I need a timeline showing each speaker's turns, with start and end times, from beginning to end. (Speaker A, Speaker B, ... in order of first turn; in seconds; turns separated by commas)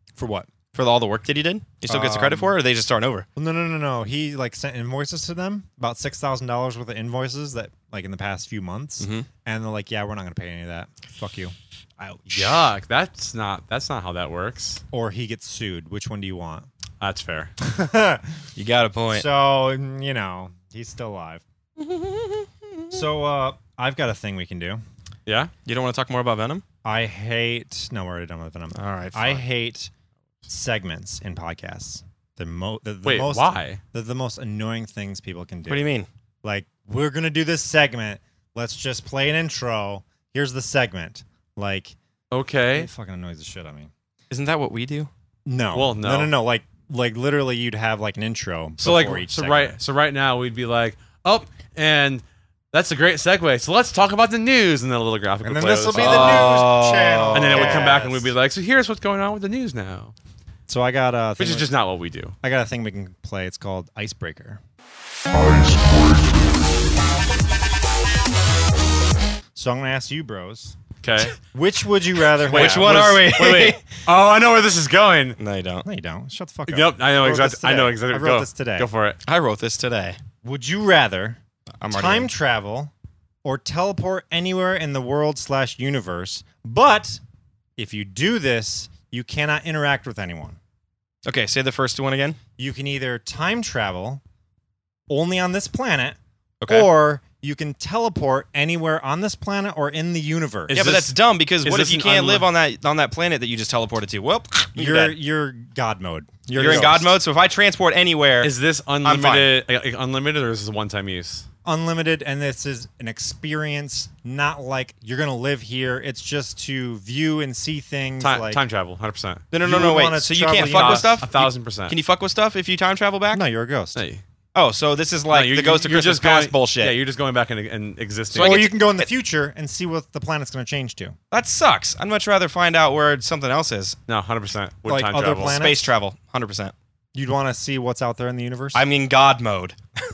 Speaker A: 0.1-0.5, Speaker B: 0.7-3.2, Speaker A: 1.9-2.5, Speaker A: 3.4-11.5, Speaker B: 9.0-9.3, Speaker B: 12.0-12.6, Speaker C: 12.3-14.8, Speaker A: 14.9-16.7, Speaker C: 17.0-17.5, Speaker A: 17.6-18.2, Speaker B: 18.6-19.3, Speaker A: 19.1-21.4, Speaker B: 21.8-22.9, Speaker A: 22.9-24.8, Speaker C: 25.2-25.5, Speaker B: 25.6-26.6, Speaker A: 26.8-29.9, Speaker B: 28.7-29.4, Speaker A: 30.5-35.9, Speaker C: 33.0-33.8, Speaker B: 35.7-36.1, Speaker A: 36.4-41.9, Speaker C: 42.3-42.9, Speaker A: 42.7-43.9, Speaker B: 44.3-45.1, Speaker A: 45.5-49.8, Speaker C: 45.7-46.3, Speaker C: 48.8-56.5, Speaker A: 55.4-58.3, Speaker B: 55.9-58.0, Speaker C: 57.3-60.1, Speaker A: 60.7-61.7, Speaker C: 61.4-62.3, Speaker A: 62.4-64.6, Speaker A: 69.5-70.8, Speaker C: 71.0-71.3, Speaker A: 71.4-73.1, Speaker C: 72.4-75.4, Speaker B: 72.5-73.8, Speaker B: 75.4-75.8, Speaker A: 75.8-78.9, Speaker C: 76.7-79.2, Speaker B: 79.2-80.2, Speaker A: 80.4-82.9, Speaker B: 81.8-82.3, Speaker A: 83.4-87.2, Speaker A: 87.8-90.6, Speaker B: 91.2-92.4, Speaker A: 92.6-94.2, Speaker A: 95.1-96.2, Speaker B: 96.6-96.9, Speaker A: 96.7-100.8, Speaker C: 100.7-102.5, Speaker B: 100.7-105.1, Speaker A: 104.7-107.2, Speaker B: 106.5-108.5, Speaker C: 108.4-111.5, Speaker B: 109.0-109.5, Speaker A: 111.6-118.6, Speaker C: 118.2-119.5, Speaker B: 119.5-123.4, Speaker A: 119.6-121.3, Speaker C: 120.6-122.0, Speaker A: 123.3-124.0, Speaker C: 124.0-124.2, Speaker B: 124.5-126.9, Speaker C: 125.3-128.6, Speaker B: 128.3-129.1, Speaker A: 128.4-131.2, Speaker B: 131.3-134.0, Speaker C: 134.1-135.6, Speaker A: 134.8-135.9, Speaker B: 135.4-136.7, Speaker A: 137.1-138.8, Speaker B: 138.7-139.8